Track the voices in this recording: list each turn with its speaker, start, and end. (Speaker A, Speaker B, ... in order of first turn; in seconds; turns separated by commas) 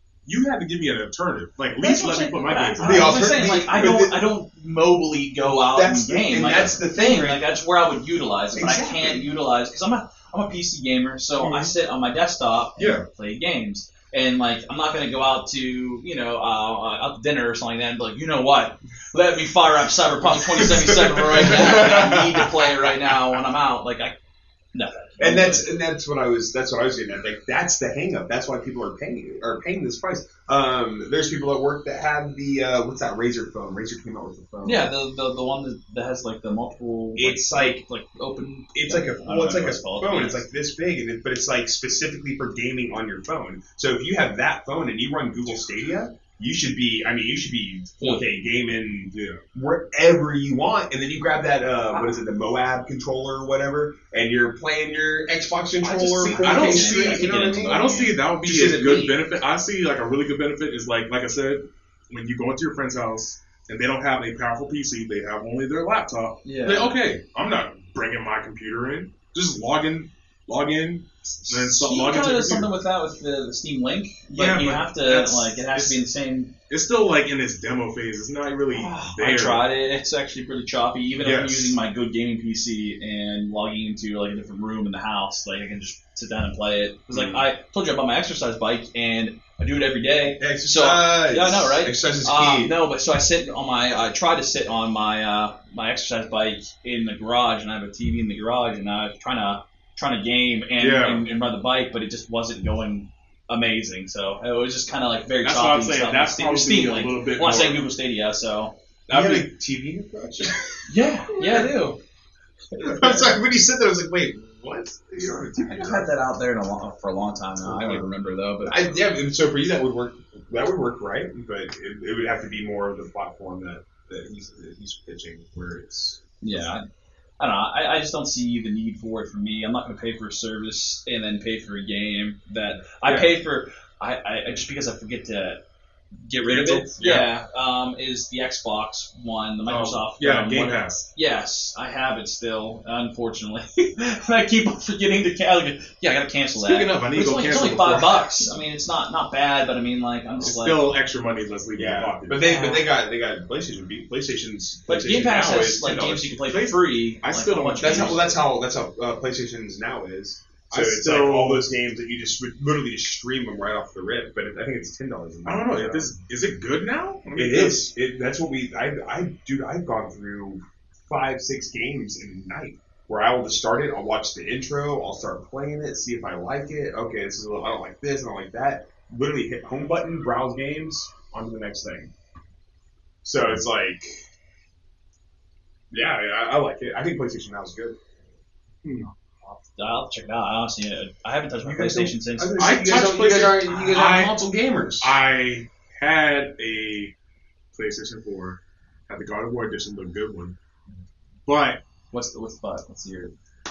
Speaker A: 0.2-3.2, Speaker B: 1.8-24.1, Speaker C: 2.8-4.2, Speaker C: 5.5-7.4, Speaker C: 8.5-9.3, Speaker A: 11.4-11.7, Speaker A: 12.8-13.1, Speaker C: 20.9-22.5, Speaker B: 24.7-25.7, Speaker C: 25.2-34.9, Speaker B: 34.6-40.4, Speaker C: 37.2-37.8, Speaker C: 38.7-59.2, Speaker A: 49.1-49.4, Speaker B: 55.8-58.2, Speaker A: 56.0-72.7, Speaker B: 66.4-67.0, Speaker B: 71.5-76.5, Speaker A: 74.3-76.0, Speaker A: 76.7-79.6, Speaker B: 78.7-108.7, Speaker A: 81.2-81.8, Speaker A: 87.1-87.4, Speaker C: 90.4-92.7, Speaker A: 100.8-101.2, Speaker A: 105.4-107.8, Speaker A: 109.1-109.5, Speaker C: 109.1-111.7, Speaker B: 110.9-112.0, Speaker B: 112.7-113.4, Speaker C: 112.8-116.1, Speaker B: 115.6-119.0, Speaker C: 117.6-118.1, Speaker C: 118.6-126.2, Speaker B: 126.4-126.8, Speaker B: 127.4-135.6, Speaker A: 133.0-133.3, Speaker B: 136.2-150.8, Speaker A: 136.4-137.3, Speaker A: 139.7-141.1, Speaker A: 146.6-148.5, Speaker A: 150.4-152.4, Speaker C: 151.7-156.3, Speaker B: 152.4-152.8, Speaker B: 154.9-158.2, Speaker A: 156.4-158.3, Speaker C: 157.8-166.1, Speaker A: 160.7-161.7, Speaker A: 165.4-167.8, Speaker C: 167.3-182.1, Speaker C: 183.2-184.2, Speaker C: 185.9-188.0, Speaker A: 188.8-189.1, Speaker B: 189.4-192.7, Speaker C: 191.6-195.1, Speaker A: 192.6-197.1, Speaker A: 197.7-200.6, Speaker A: 201.5-201.8, Speaker B: 202.1-203.3